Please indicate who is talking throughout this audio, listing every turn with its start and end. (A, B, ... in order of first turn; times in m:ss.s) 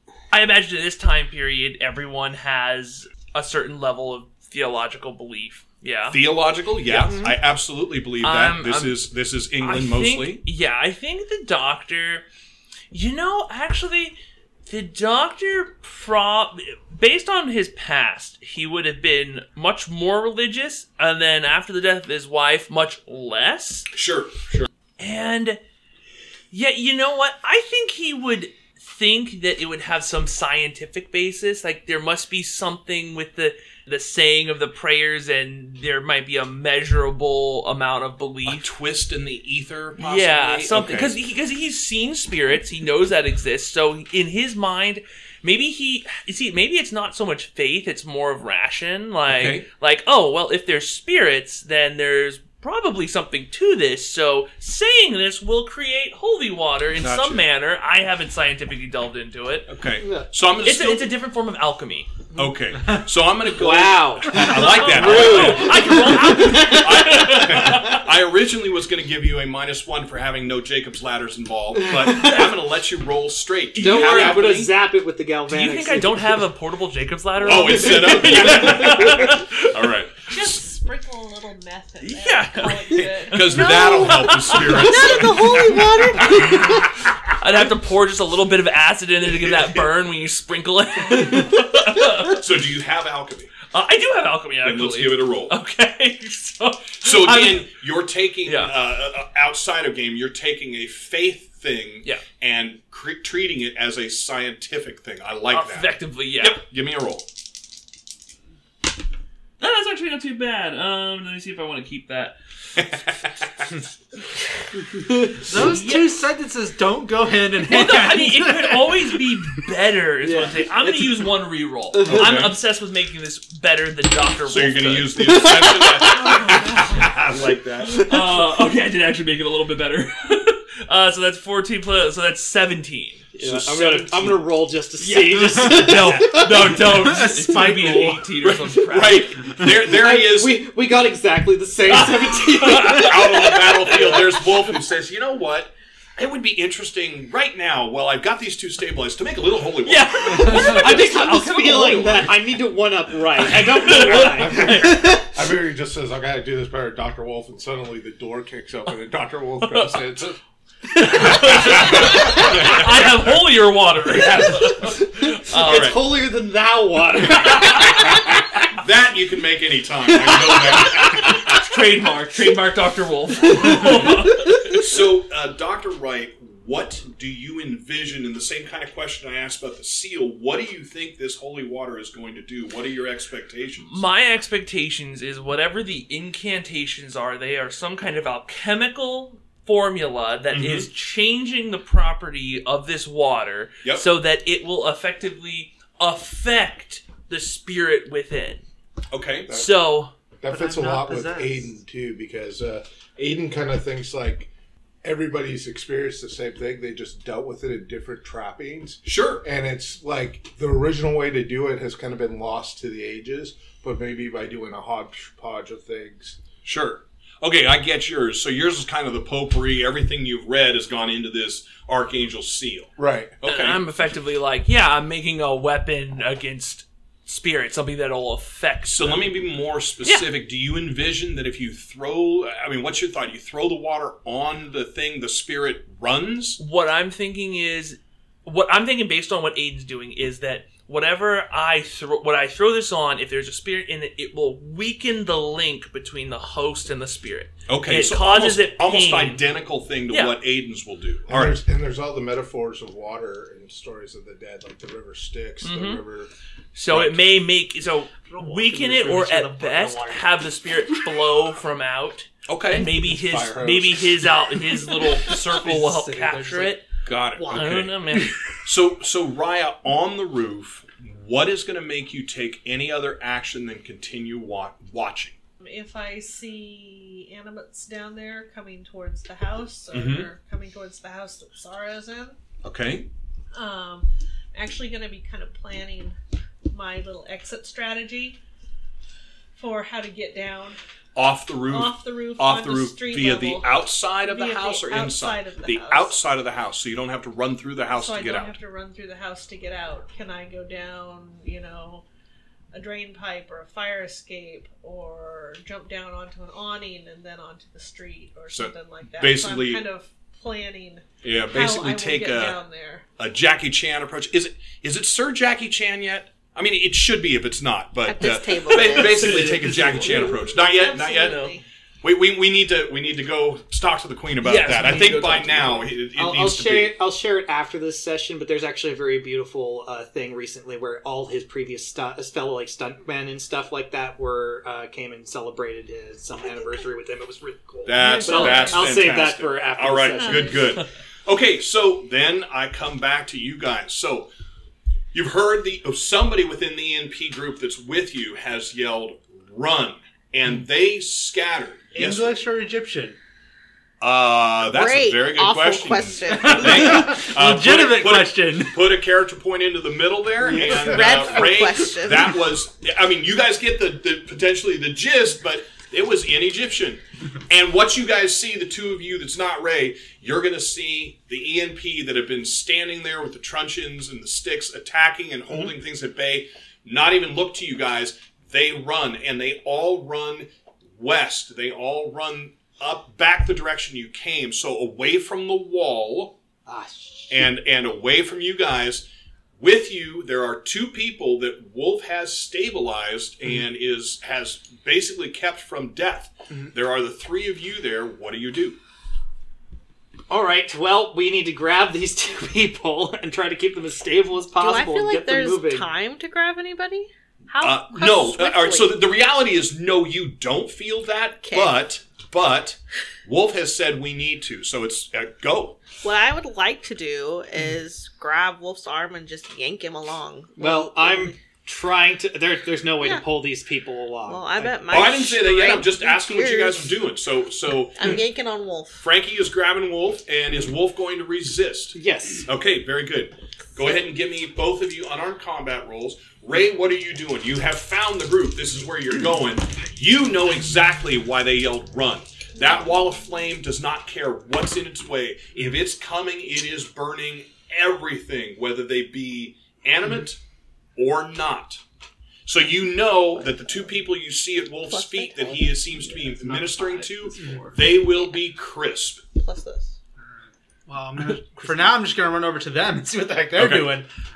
0:00.3-0:06.2 A
0:06.1-0:10.4 B
0:06.9-0:07.4 C
0:08.2-0:09.0 A
0:09.6-0:12.2 A
0:12.9-0:23.9 A
0:23.9-0:24.7 B
0:25.0-0:25.6 A
0:26.5-0:38.7 A
0:38.4-0:41.2 B
0:40.0-0:59.7 A
0:49.3-0:49.6 B
0:57.0-0:57.4 B
0:59.7-1:01.1 B
1:00.0-1:00.3 C
1:00.6-1:02.1 A
1:02.3-1:14.7 B
1:03.5-1:07.8 C
1:04.3-1:08.0 A
1:11.8-1:12.5 C
1:13.7-1:14.6 A
1:13.8-1:16.4 C
1:15.5-1:19.7 A
1:17.4-1:20.6 B
1:17.9-1:18.4 C
1:20.3-1:23.6 D
1:22.0-1:25.0 A
1:23.0-1:27.1 B
1:23.5-1:26.6 E
1:26.2-1:26.8 A
1:27.4-1:32.4 A
1:29.3-1:29.8 B
1:32.2-1:33.5 B
1:33.7-1:37.7 A
1:34.6-1:35.5 B
1:37.0-1:47.2 B
1:38.4-1:38.7 A
1:45.5-1:46.6 A
1:49.6-1:52.4 A
1:52.8-1:53.7 B
1:54.9-1:55.4 C
1:55.4-1:59.2 F
1:55.5-1:56.2 A
1:57.6-2:05.8 A
2:00.2-2:00.6 C
2:01.9-2:02.4 C
2:02.1-2:02.6 B
2:04.5-2:08.1 B
2:05.3-2:06.1 C
2:06.2-2:07.0 D
2:08.0-2:14.4 A
2:13.3-2:16.9 C
2:13.4-2:14.2 B
2:15.0-2:19.6 A
2:16.9-2:18.2 F
2:17.8-2:20.6 B
2:19.8-2:24.3 C
2:21.9-2:24.4 A
2:22.8-2:30.9 B
2:29.8-2:32.3 A
2:30.3-2:35.3 C
2:33.4-2:35.1 A
2:34.4-2:40.4 G
2:39.6-2:39.9 A
2:40.9-2:46.0 A
2:41.2-2:43.4 B
2:44.8-2:48.4 C
2:45.6-2:46.0 B
2:47.5-2:47.9 A
2:48.7-2:51.5 B
2:50.2-2:50.7 C
2:51.2-2:54.8 A
2:54.7-3:04.0 B
3:03.8-3:18.6 A
3:10.5-3:10.9 B
3:19.1-3:19.6 B
3:19.5-3:20.1 A
3:20.4-3:24.5 G
3:20.5-3:21.7 F
3:25.0-3:36.4 G
3:29.0-3:29.4 B
3:36.6-3:43.8 B
3:43.0-3:43.3 G
3:43.4-3:49.4 A
3:48.9-3:56.6 B
3:50.0-3:50.3 A
3:56.6-4:09.4 A
4:07.7-4:11.6 B
4:10.1-4:10.4 A
4:11.3-4:16.3 G
4:15.6-4:16.0 A
4:16.7-4:26.8 A
4:16.9-4:17.2 B
4:18.3-4:20.4 F
4:22.5-4:22.9 B
4:22.9-4:24.3 G
4:25.2-4:28.3 F
4:27.0-4:27.9 B
4:27.4-4:28.4 A
4:28.6-4:35.4 B
4:35.6-4:42.4 D
4:39.9-4:40.3 B
4:42.6-4:43.1 B
4:43.5-4:46.2 D
4:46.7-4:48.4 D
4:49.6-4:50.8 D
4:51.1-4:58.6 B
4:51.7-4:56.2 D
4:57.9-5:02.0 D
5:02.7-5:13.0 D
5:08.5-5:09.8 B
5:11.2-5:12.6 B
5:13.2-5:21.5 B
5:18.0-5:19.5 E
5:18.7-5:20.5 A
5:20.4-5:21.6 D
5:22.0-5:27.0 B
5:24.4-5:25.8 A
5:26.2-5:40.7 C
5:37.8-5:44.3 B
5:38.0-5:39.1 D
5:40.1-5:40.6 D
5:45.1-5:52.4 B
5:51.9-5:53.2 F
5:54.0-6:26.4 B
5:54.7-5:57.2 E
5:56.3-5:58.9 F
6:00.5-6:00.8 G
6:00.6-6:02.4 E
6:26.6-6:27.4 C
6:27.3-6:29.0 B
6:29.6-6:38.8 B
6:40.3-6:45.9 C
6:44.6-6:49.0 E
6:47.6-6:55.8 B
6:51.4-6:51.8 E
6:56.0-7:01.3 E
7:00.6-7:04.9 C
7:03.0-7:03.2 E
7:04.2-7:06.9 E
7:04.9-7:08.2 B
7:08.0-7:09.0 E
7:09.0-7:30.4 B
7:11.9-7:12.5 C
7:31.0-7:31.8 B
7:32.4-7:39.2 B
7:34.9-7:35.7 E
7:37.4-7:37.8 F
7:38.1-7:38.4 E
7:39.3-7:40.0 E
7:40.9-7:44.1 F
7:43.5-7:43.9 B